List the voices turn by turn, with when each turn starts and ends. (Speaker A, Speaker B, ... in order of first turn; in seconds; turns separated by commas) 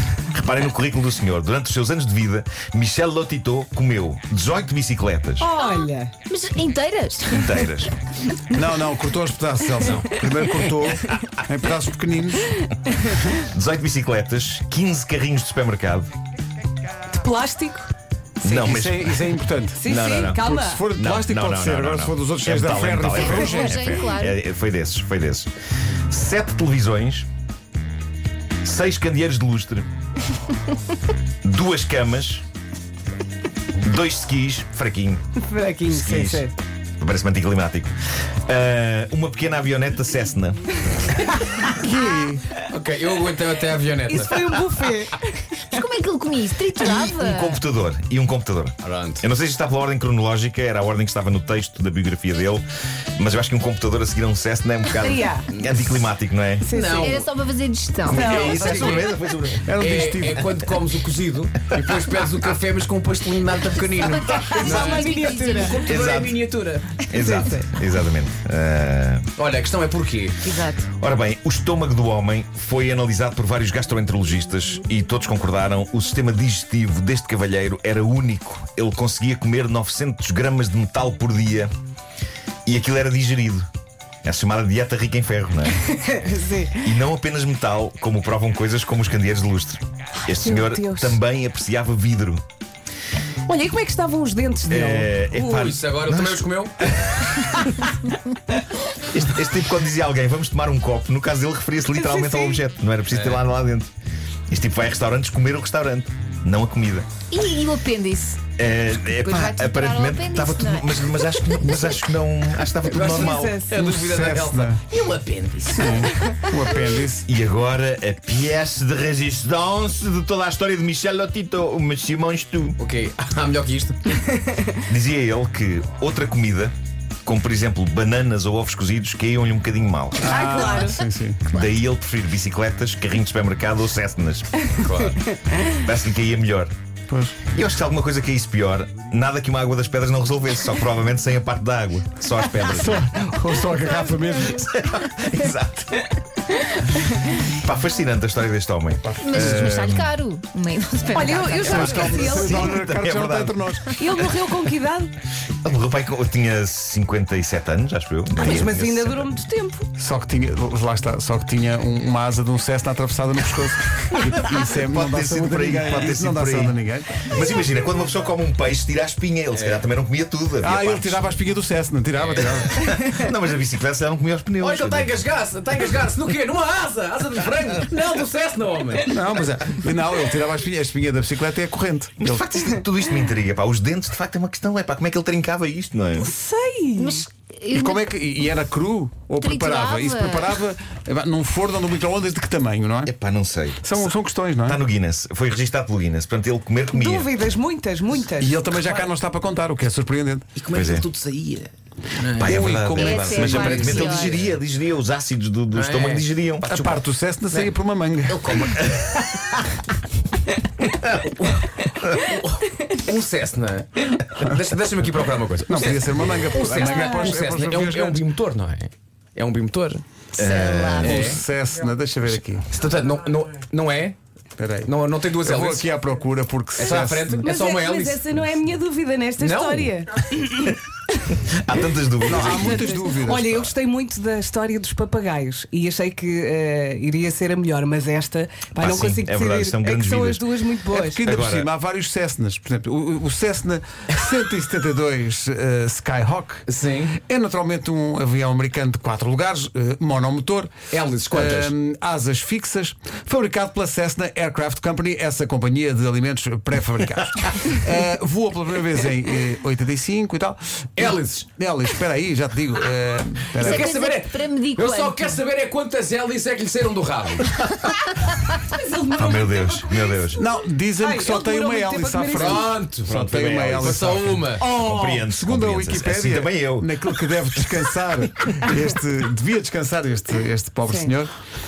Speaker A: 0.3-5.5, Speaker B: 5.4-6.1, Speaker C: 5.6-7.5, Speaker A: 7.3-7.9, Speaker D: 8.5-12.6, Speaker A: 13.3-16.1, Speaker B: 17.1-17.9, Speaker A: 18.4-19.3, Speaker D: 18.4-23.8, Speaker B: 19.8-20.9, Speaker A: 19.8-20.4, Speaker A: 20.9-25.5, Speaker C: 23.1-24.3, Speaker A: 26.1-27.3, Speaker A: 28.6-29.9, Speaker A: 31.4-32.4, Speaker A: 33.8-35.2, Speaker B: 35.4-36.5, Speaker A: 35.9-36.4, Speaker A: 37.0-37.9, Speaker A: 38.4-40.8, Speaker D: 41.7-42.4, Speaker E: 42.7-44.9, Speaker B: 44.1-45.8, Speaker C: 45.7-47.5, Speaker A: 46.8-52.6, Speaker E: 48.8-49.2, Speaker A: 53.2-56.7, Speaker B: 55.0-55.5, Speaker E: 55.5-56.0, Speaker B: 56.6-57.2, Speaker E: 56.7-57.3, Speaker C: 57.0-58.3, Speaker B: 58.1-59.0, Speaker A: 58.1-59.7, Speaker E: 58.3-59.1, Speaker D: 59.6-60.5, Speaker E: 59.8-67.0, Speaker C: 64.2-66.0, Speaker B: 64.3-65.8, Speaker A: 65.8-66.4, Speaker A: 67.1-69.3, Speaker B: 67.1-67.7, Speaker E: 69.3-70.5, Speaker C: 70.5-70.9, Speaker A: 71.0-81.7, Speaker A: 82.7-83.7, Speaker A: 84.2-85.8, Speaker B: 85.9-86.9, Speaker A: 86.8-92.4, Speaker B: 90.4-91.2, Speaker B: 93.5-95.7, Speaker A: 94.7-97.6, Speaker E: 95.5-96.8, Speaker A: 99.1-103.9, Speaker B: 102.0-102.6, Speaker E: 103.1-103.4, Speaker A: 104.5-107.1, Speaker C: 107.3-108.4, Speaker A: 108.6-113.5, Speaker C: 109.2-110.9, Speaker E: 112.8-116.3, Speaker B: 113.1-113.7, Speaker D: 113.7-114.8, Speaker D: 115.8-117.3, Speaker A: 117.2-122.8, Speaker E: 122.8-124.2, Speaker A: 124.8-126.7, Speaker A: 127.2-130.4, Speaker D: 130.2-131.4, Speaker B: 130.2-131.0, Speaker A: 131.5-134.6, Speaker E: 134.8-135.2, Speaker A: 135.8-136.7, Speaker D: 137.1-137.4, Speaker A: 137.5-146.0, Speaker D: 142.7-144.6, Speaker A: 147.4-150.1, Speaker D: 149.0-149.9, Speaker C: 149.2-152.0, Speaker B: 151.1-152.8, Speaker D: 151.6-153.9, Speaker A: 151.7-154.0, Speaker B: 154.0-155.1, Speaker A: 155.6-159.4, Speaker D: 158.4-158.7, Speaker B: 158.4-159.9, Speaker D: 160.0-167.3, Speaker A: 164.2-166.8, Speaker A: 167.3-171.3, Speaker E: 169.5-169.8, Speaker D: 170.6-172.8, Speaker E: 172.1-172.9, Speaker A: 172.4-175.2, Speaker E: 174.6-179.1, Speaker D: 179.1-182.5, Speaker A: 182.2-186.3, Speaker B: 186.2-187.2, Speaker C: 187.0-188.0, Speaker D: 187.7-193.1, Speaker C: 189.4-190.5, Speaker A: 193.1-194.1, Speaker D: 193.8-194.8, Speaker A: 194.6-197.3, Speaker B: 196.9-198.9, Speaker D: 198.3-200.5, Speaker E: 200.6-202.7, Speaker A: 200.7-201.1, Speaker A: 202.3-206.8, Speaker D: 202.4-204.2, Speaker C: 202.9-204.5, Speaker E: 205.7-206.9, Speaker D: 206.7-208.7, Speaker E: 208.3-209.3, Speaker E: 211.0-220.0, Speaker D: 215.7-218.2, Speaker B: 216.6-217.4, Speaker A: 220.3-221.3, Speaker B: 220.6-221.0, Speaker E: 220.9-221.4, Speaker D: 221.0-222.7, Speaker E: 222.7-224.2, Speaker D: 224.6-227.4, Speaker E: 224.8-225.9, Speaker E: 226.8-228.4, Speaker B: 227.4-230.8, Speaker E: 229.4-230.0, Speaker A: 231.3-233.7, Speaker D: 232.2-233.4, Speaker B: 232.3-241.2, Speaker A: 238.8-240.4, Speaker D: 240.9-246.6, Speaker A: 241.2-241.7, Speaker E: 246.7-247.2, Speaker D: 247.1-250.7, Speaker E: 250.9-251.7, Speaker D: 251.3-264.0, Speaker E: 261.0-261.4, Speaker C: 263.6-265.4, Speaker E: 263.6-267.6, Speaker B: 268.7-270.4, Speaker A: 269.1-270.4, Speaker D: 270.4-281.3, Speaker B: 271.0-272.7, Speaker E: 272.4-274.7, Speaker A: 273.1-277.7, Speaker B: 280.8-281.1